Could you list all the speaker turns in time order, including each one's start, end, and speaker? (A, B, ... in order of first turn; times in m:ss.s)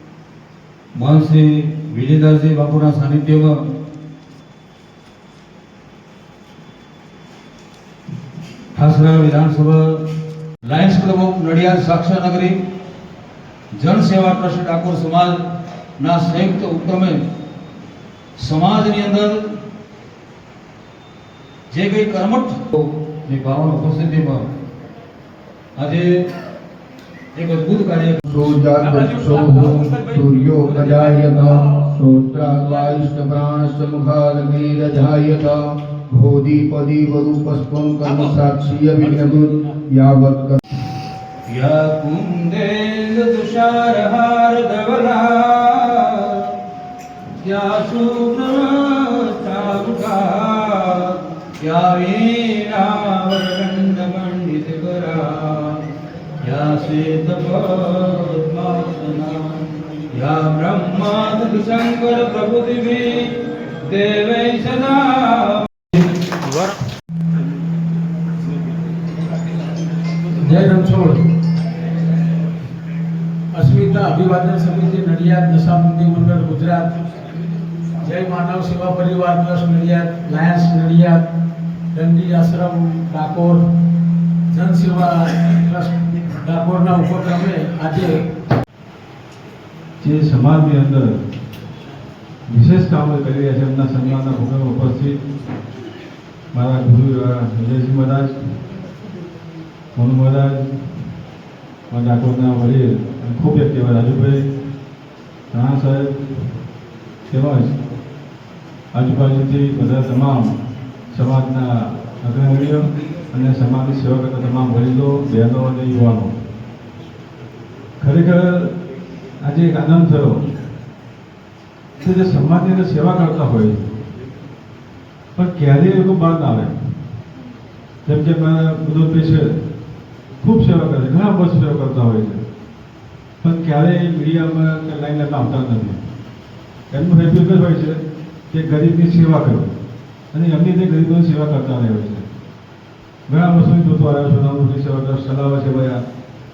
0:01.0-0:03.6 A
0:08.7-0:09.9 A
0:10.6-0:12.6 A
0:13.8-0:15.4 A
0:16.0-0:17.2 A
0:18.4-0:19.4 A
0:21.7-0:24.5 A
0:25.8-0:26.1 A
0:27.4-0:28.2 A
0:28.3-0:40.6 B
0:29.0-0:29.8 C
0:41.5-0:46.5 A
0:47.4-0:55.8 A
0:56.4-1:06.8 A
1:10.3-1:11.2 C
1:13.5-1:17.0 C
1:18.0-1:21.2 C
1:21.9-1:23.6 C
1:24.5-1:28.3 C
1:30.0-1:31.1 D
1:32.5-1:35.2 D
1:36.5-1:38.3 D
1:40.0-1:40.6 D
1:41.9-1:44.4 D
1:45.5-1:46.2 D
1:47.3-1:47.8 D
1:48.9-1:50.5 D
1:51.1-1:56.3 D
1:58.0-1:58.7 D
1:59.4-2:00.4 D
2:02.0-2:03.9 D
2:05.4-2:06.7 D
2:08.1-2:09.5 D
2:10.4-2:12.4 D
2:13.4-2:16.0 D
2:16.9-2:18.0 D
2:18.5-2:19.7 D
2:20.3-2:22.3 D
2:23.3-2:26.0 D